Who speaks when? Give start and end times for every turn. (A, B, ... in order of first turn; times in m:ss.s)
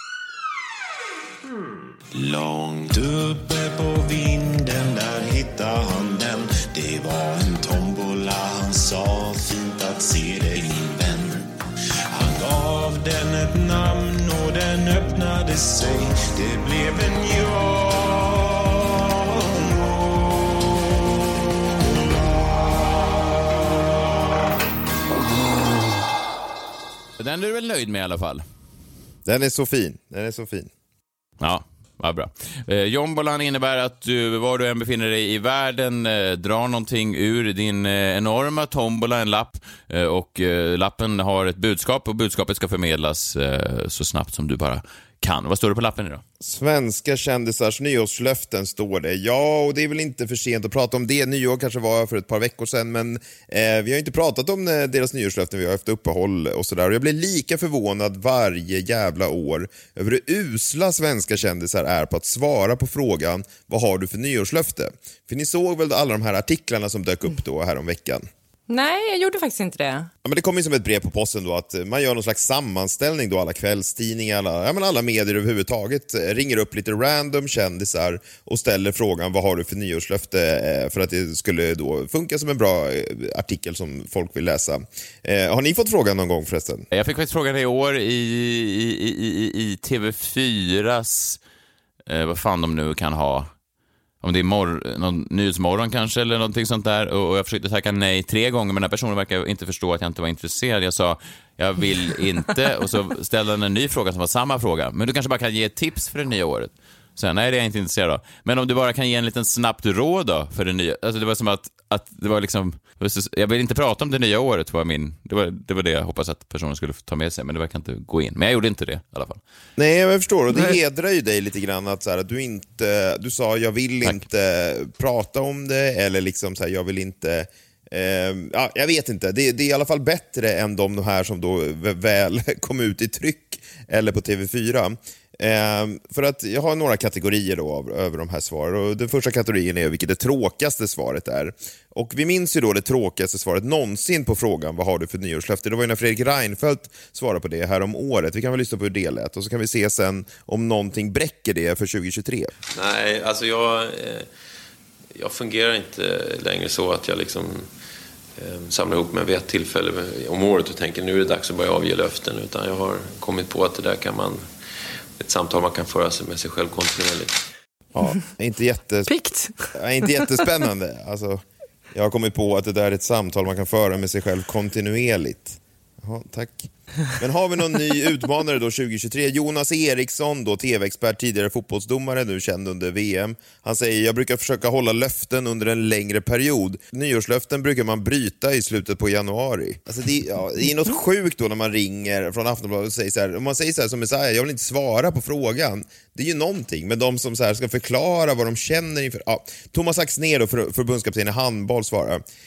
0:02.1-0:11.5 A
0:12.1-0:20.6 A
0:27.2-0:28.4 B
0:29.2-0:30.7 C
0:31.4-0:46.2 B
0:46.4-1:08.3 C
1:08.7-1:10.1 D
1:10.2-1:26.9 C
1:26.9-1:31.4 B
1:32.1-1:33.5 B
1:34.2-1:59.4 B
1:59.8-2:32.5 C
2:32.7-2:34.3 E
2:35.2-2:37.7 E
2:38.4-2:44.4 E
2:45.2-2:47.4 E
2:48.0-2:49.1 C
2:49.1-2:50.4 D
2:49.7-3:22.2 C